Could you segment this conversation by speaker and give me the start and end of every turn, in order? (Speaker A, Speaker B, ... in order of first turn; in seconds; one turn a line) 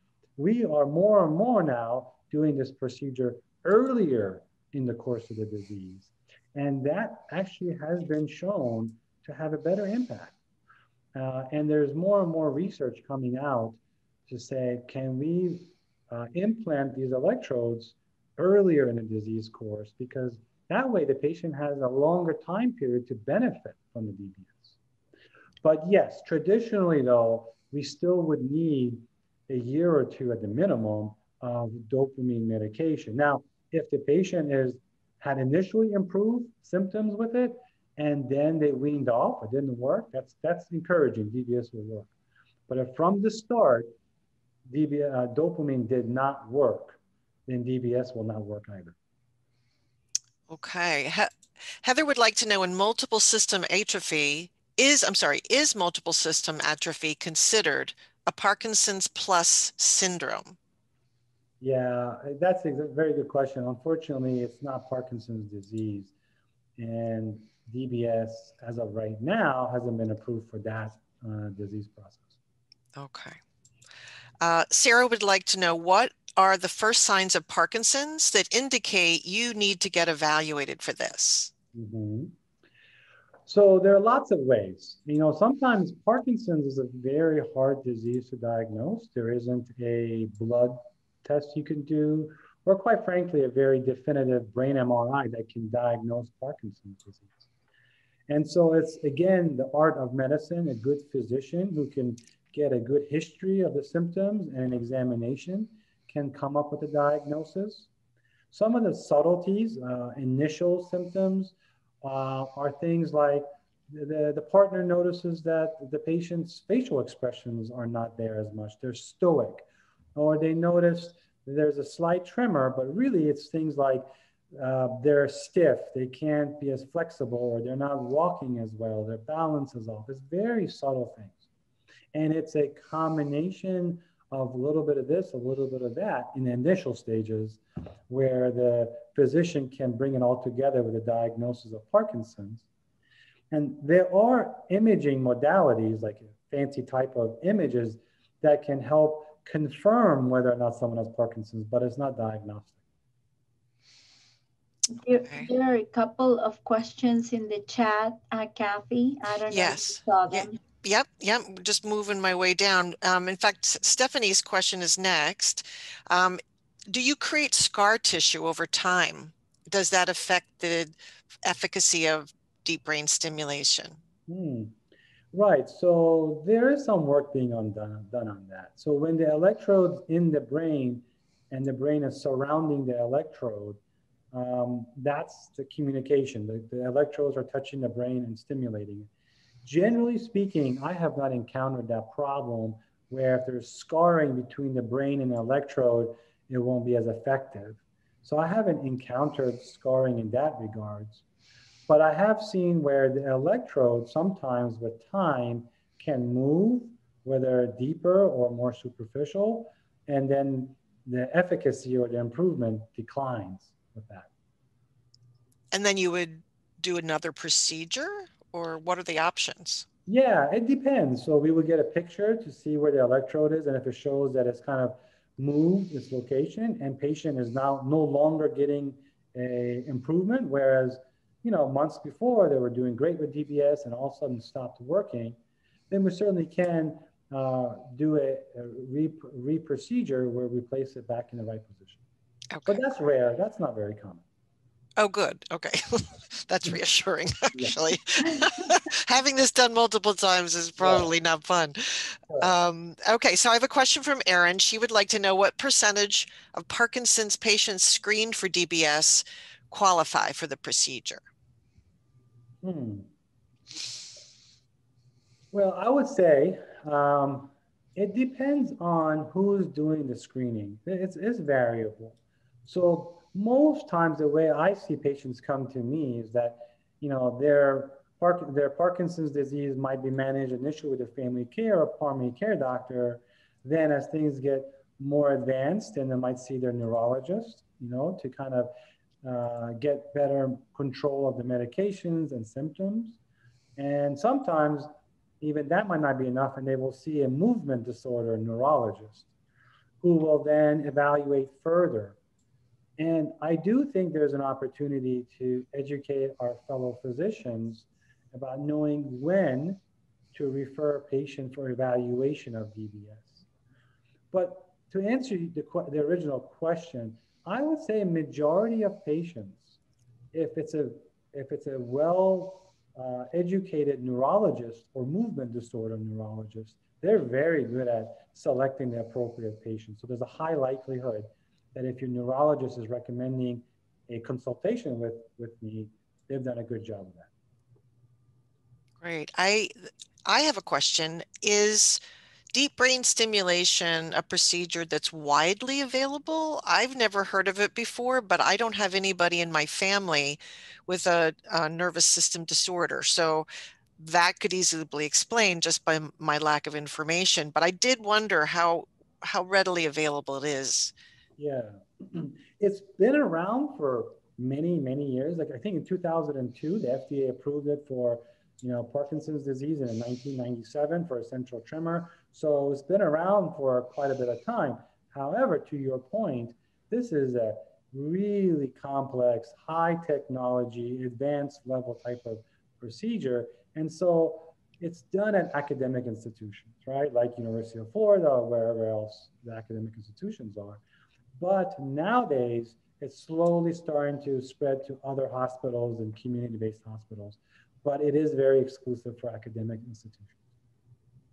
Speaker A: 0.4-10.4
Speaker A: 11.1-24.8
Speaker A: 25.6-42.1
Speaker A: 42.7-43.9
Speaker A: 44.7-49.0
Speaker B: 50.5-51.3
Speaker B: 51.8-60.6
Speaker A: 61.6-66.1
Speaker A: 66.8-72.3
Speaker B: 73.0-73.4
Speaker B: 74.4-81.5
Speaker A: 81.7-82.3
Speaker A: 83.5-97.5
Speaker A: 98.3-107.9
Speaker A: 108.5-119.6
Speaker A: 120.2-131.4
Speaker A: 132.1-142.7
Speaker A: 143.5-152.8
Speaker C: 154.9-160.6
Speaker B: 159.5-166.4
Speaker B: 166.9-174.0
Speaker A: 174.3-174.8
Speaker A: 175.3-183.8
Speaker A: 184.3-189.1
Speaker A: 189.6-201.2
Speaker A: 201.9-214.3
Speaker B: 215.7-219.8
Speaker A: 220.1-235.4
Speaker A: 235.9-242.0
Speaker B: 242.5-242.8
Speaker A: 242.7-244.2
Speaker B: 245.0-261.2
Speaker A: 250.8-251.1
Speaker A: 262.6-263.1
Speaker A: 265.5-288.7
Speaker A: 289.2-293.2
Speaker A: 293.8-294.9
Speaker A: 295.4-299.2
Speaker A: 300.0-302.2
Speaker A: 303.0-309.8
Speaker A: 310.3-313.4
Speaker A: 314.3-319.8
Speaker A: 320.3-337.3
Speaker B: 339.0-342.0
Speaker B: 342.5-360.9
Speaker A: 361.4-390.8
Speaker A: 391.4-400.4